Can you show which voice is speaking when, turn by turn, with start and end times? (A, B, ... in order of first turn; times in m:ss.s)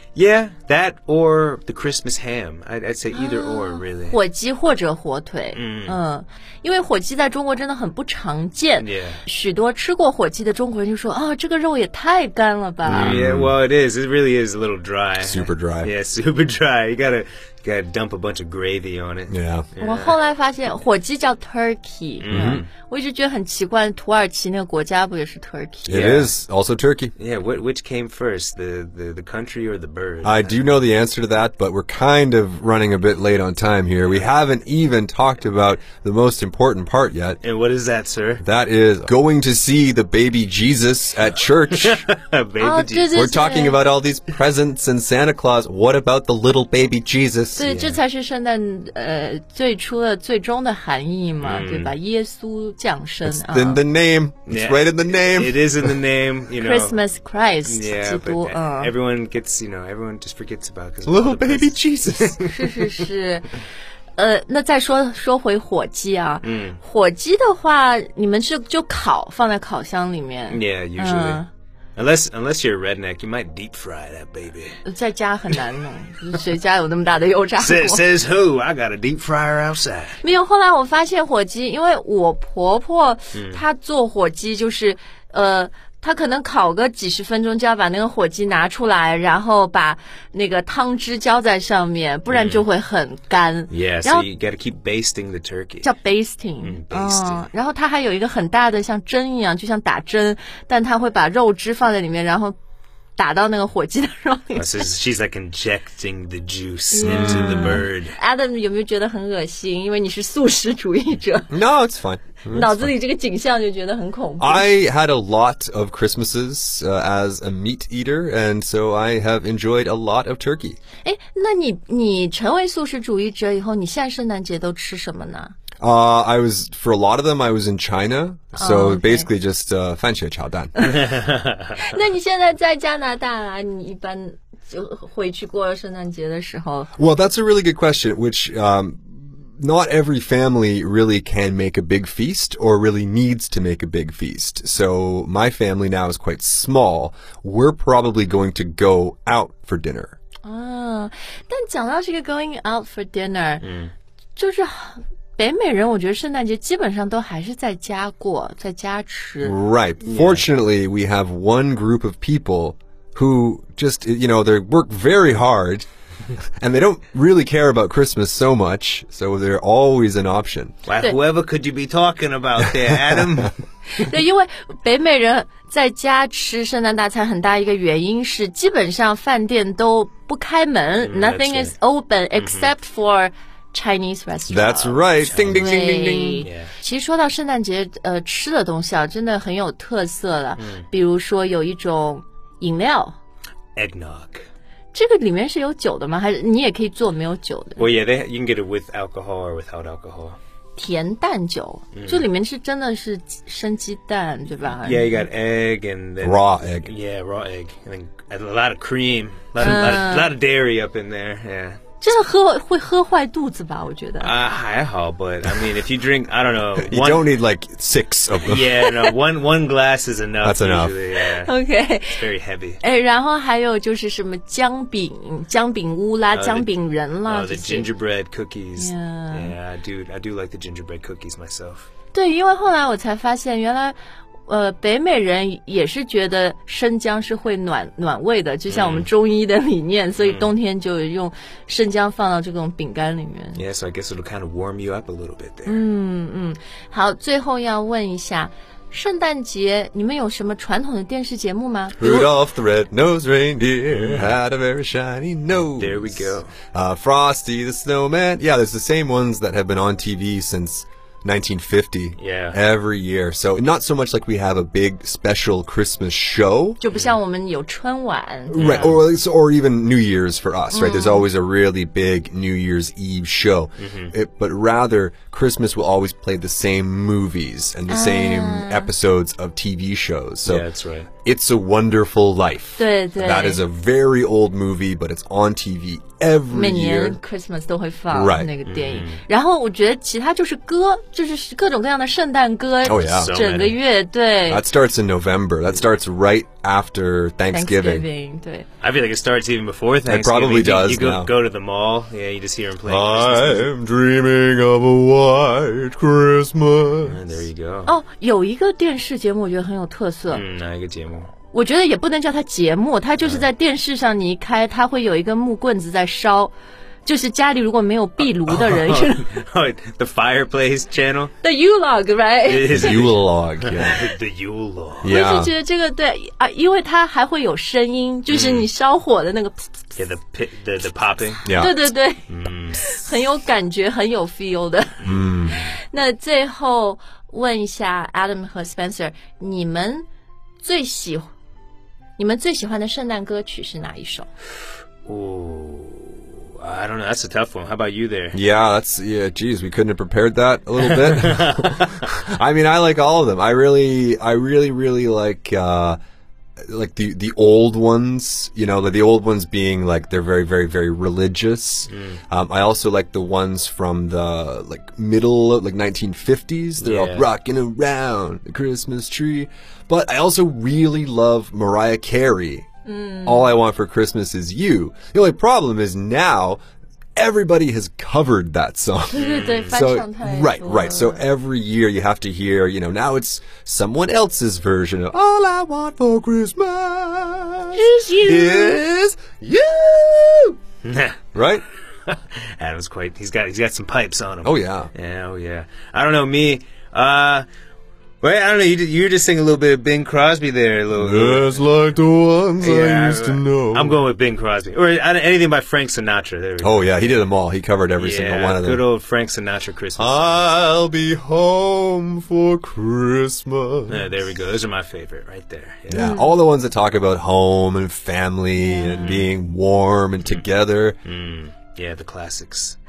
0:00.1-0:04.2 A
0:03.1-0:13.2 B
0:05.5-0:06.0 A
0:08.8-0:09.2 A
0:12.8-0:13.5 C
0:12.9-0:20.2 A
0:15.2-0:15.9 C
0:19.3-0:19.7 C
0:19.8-0:26.0 B
0:22.2-0:22.7 A
0:22.3-0:22.6 C
0:25.9-0:27.1 C
0:25.9-0:26.3 A
0:27.2-0:30.7 A
0:30.2-0:37.4 C
0:37.4-0:38.4 A
0:38.4-0:42.0 C
0:41.7-0:43.1 A
0:42.6-0:43.8 B
0:43.1-0:48.0 C
0:47.5-0:53.8 B
0:51.4-0:51.9 A
0:53.2-0:56.0 C
0:54.5-0:57.0 A
0:56.6-0:58.9 B
0:57.6-1:03.1 A
1:01.0-1:02.4 C
1:02.4-1:03.5 B
1:04.2-1:11.5 B
1:06.4-1:06.8 A
1:10.5-1:11.4 A
1:12.0-1:14.8 A
1:14.8-1:18.0 B
1:17.6-1:20.2 A
1:20.2-1:34.2 B
1:23.3-1:23.6 A
1:32.3-1:32.6 A
1:33.7-1:35.9 A
1:35.8-1:42.5 B
1:36.6-1:37.5 A
1:43.2-1:44.8 B
1:44.5-1:48.2 A
1:46.9-1:51.5 B
1:47.0-1:47.9 C
1:51.5-1:52.9 C
1:52.5-1:54.7 B
1:54.4-2:00.8 C
2:01.0-2:05.5 B
2:05.8-2:10.8 C
2:08.5-2:09.3 B
2:10.8-2:11.1 B
2:10.9-2:11.8 A
2:11.8-2:16.9 B
2:17.0-2:30.2 C
2:30.4-2:33.6 B
2:33.6-2:33.9 A
2:34.4-2:39.6 B
2:39.4-2:45.8 C
2:40.0-2:40.5 A
2:46.6-2:50.7 C
2:50.8-2:53.5 A
2:53.9-3:13.2 B
3:01.0-3:01.7 A
3:02.3-3:02.7 A
3:04.5-3:06.4 C
3:05.2-3:05.7 A
3:06.4-3:06.7 A
3:10.6-3:10.8 A
3:13.8-3:14.4 A
3:14.9-3:17.9 B
3:17.8-3:20.4 A
3:20.8-3:25.2 B
3:21.9-3:22.3 A
3:24.6-3:31.8 A
3:26.2-3:26.9 C
3:29.6-3:30.3 B
3:32.0-3:34.3 B
3:34.2-3:37.3 A
3:36.8-3:38.8 C
3:38.4-3:42.8 A
3:40.4-3:41.0 C
3:41.2-3:42.2 B
3:42.8-3:47.9 B
3:46.3-3:46.7 A
3:47.2-3:51.9 A
3:48.8-3:49.5 B
3:52.1-3:54.0 B
3:54.5-4:03.6 B
3:58.7-3:59.1 A
4:00.2-4:00.5 A
4:03.5-4:05.8 A
4:05.6-4:12.3 B
4:12.0-4:26.8 C
4:13.9-4:14.4 A
4:15.5-4:16.5 A
4:22.2-4:22.6 A
4:26.8-4:28.9 B
4:26.9-4:27.2 A
4:28.5-4:40.6 C
4:28.6-4:29.0 A
4:30.7-4:31.2 B
4:33.8-4:34.1 A
4:37.9-4:38.9 B
4:40.4-4:41.1 A
4:41.2-4:47.2 C
4:42.8-4:43.6 B
4:46.5-4:54.6 B
4:48.1-4:48.5 C
4:48.6-4:49.2 A
4:52.8-4:53.8 A
4:52.8-4:53.3 C
4:54.5-4:58.0 C
4:57.5-4:58.6 B
4:58.8-5:03.7 A
5:00.1-5:01.3 C
5:02.9-5:07.2 C
5:07.0-5:07.9 A
5:07.8-5:10.4 B
5:10.3-5:11.3 A
5:11.5-5:19.4 B
5:18.2-5:21.3 A
5:21.4-5:22.9 B
5:22.4-5:25.2 A
5:22.7-5:24.0 C
5:25.0-5:25.5 C
5:25.0-5:29.8 B
5:28.3-5:28.7 A
5:29.9-5:31.7 A
5:31.4-5:31.8 C
5:31.5-5:40.0 B
5:32.3-5:33.0 A
5:35.0-5:35.6 C
5:35.0-5:35.8 A
5:40.6-5:41.3 B
5:42.2-5:44.3 B
5:45.0-5:48.4 A
5:48.3-5:56.0 C
5:50.8-5:51.9 A
5:56.7-6:12.6 C
6:01.9-6:02.2 A
6:06.8-6:07.3 A
6:12.8-6:13.6 B
6:13.2-6:16.6 C
6:17.2-6:30.6 C
6:19.1-6:21.2 B
6:19.1-6:19.8 A
6:27.7-6:28.8 B
6:30.8-6:31.2 A
6:31.3-6:31.6 C
6:32.1-6:37.4 A
6:34.4-6:34.9 C
6:38.2-6:41.6 A
6:40.9-6:44.0 C
6:42.6-6:47.2 A
6:46.6-6:48.8 C
6:48.0-6:50.4 A
6:50.0-6:54.1 C
6:53.9-6:56.0 A
6:55.9-7:01.0 C
6:55.9-6:56.4 B
6:58.6-6:59.2 B
6:59.0-6:59.3 A
7:01.0-7:02.8 A